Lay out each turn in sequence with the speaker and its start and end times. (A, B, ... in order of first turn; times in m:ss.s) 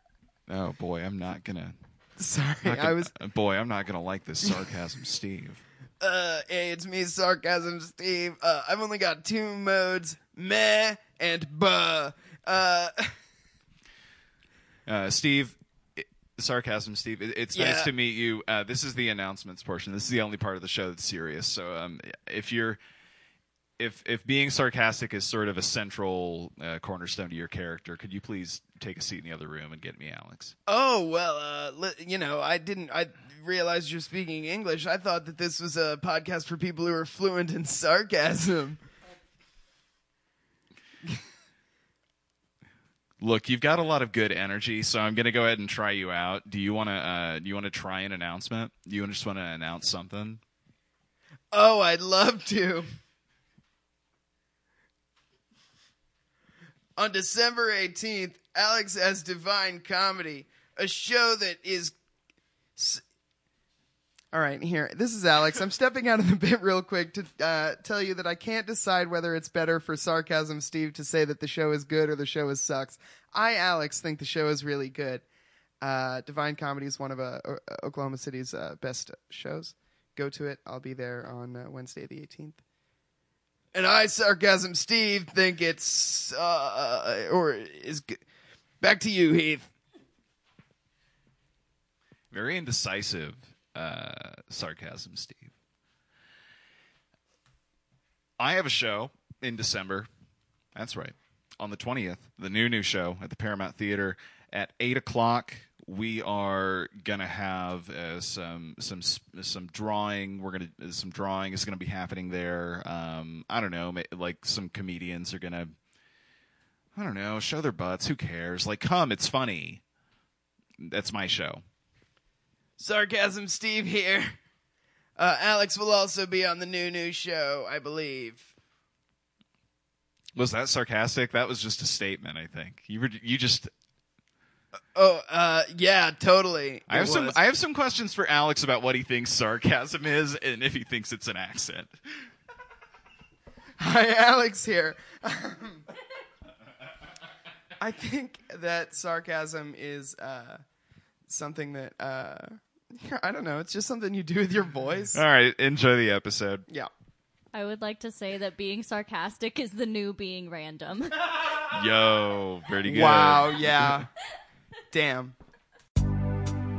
0:00.5-0:01.8 A
0:02.2-0:03.1 B
0:02.6-0:05.6 A
0:06.0-0:13.2 B
0:14.9-0:22.8 A
0:17.5-0:17.9 B
0:23.8-0:30.6 A
0:30.7-0:38.8 B
0:43.2-0:50.4 A
0:51.5-0:52.9 B
0:57.0-1:02.0 B
1:02.8-1:03.0 B
1:04.3-1:15.2 B
1:15.8-1:22.6 B
1:23.7-1:28.2 B
1:28.8-1:29.7 B
1:32.3-1:35.5 A
1:38.4-1:40.1 A
1:40.7-1:55.7 A
1:57.0-1:59.8 A
2:00.8-2:01.6 A
2:02.8-2:04.4 B
2:05.2-2:08.5 B
2:10.4-2:13.7 A
2:14.9-2:17.4 B
2:16.9-2:22.3 A
2:23.8-2:25.8 B
2:27.8-2:30.6 B
2:31.3-2:35.2 B
2:35.1-2:36.7 A
2:37.5-2:41.4 C
2:41.6-2:44.1 A
2:42.9-2:44.1 B
2:44.9-2:45.4 B